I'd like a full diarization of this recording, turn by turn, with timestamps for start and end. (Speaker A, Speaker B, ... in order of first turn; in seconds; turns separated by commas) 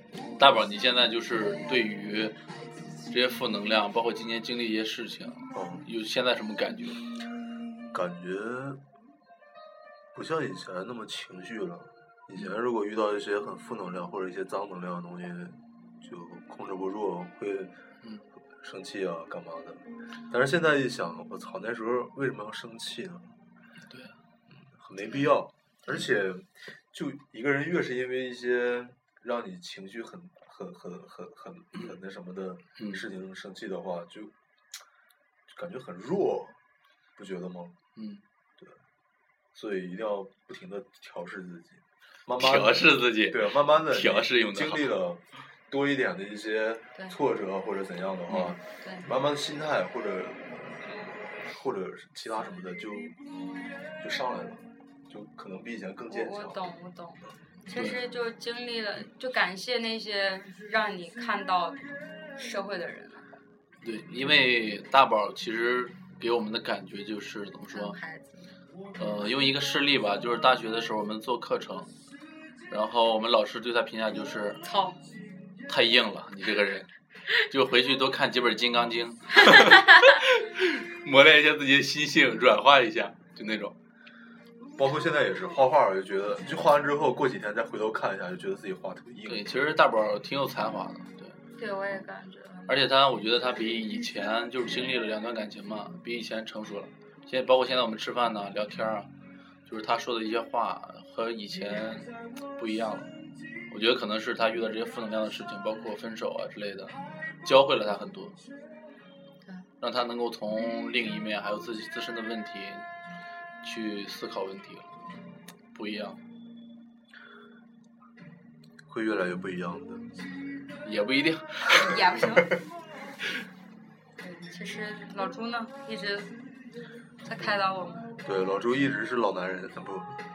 Speaker A: 0.4-2.4, Speaker A: 3.1-7.0, Speaker B: 5.5-5.8, Speaker B: 7.9-8.8, Speaker B: 10.1-17.7, Speaker B: 18.6-23.3, Speaker A: 23.9-24.1, Speaker B: 24.7-34.3, Speaker B: 35.5-36.6, Speaker B: 37.1-37.7, Speaker A: 38.0-38.2, Speaker B: 39.5-50.8, Speaker A: 42.4-44.9, Speaker A: 48.3-48.5, Speaker C: 48.8-49.0, Speaker B: 51.4-53.1, Speaker B: 54.0-56.6, Speaker C: 56.1-63.3, Speaker A: 63.8-68.0, Speaker C: 67.7-68.5, Speaker A: 69.0-71.9, Speaker A: 72.7-74.6, Speaker C: 74.6-75.0, Speaker A: 75.7-83.7, Speaker C: 79.5-79.8, Speaker B: 84.8-89.4, Speaker A: 89.3-91.4, Speaker C: 91.6-92.7, Speaker A: 92.7-99.1, Speaker A: 99.7-103.1, Speaker A: 103.7-108.4, Speaker A: 109.8-112.8, Speaker A: 113.6-114.9, Speaker A: 115.7-116.2, Speaker B: 118.9-120.0, Speaker A: 120.8-122.0, Speaker C: 121.7-122.5, Speaker C: 124.2-126.3, Speaker C: 127.2-128.1, Speaker B: 128.2-130.2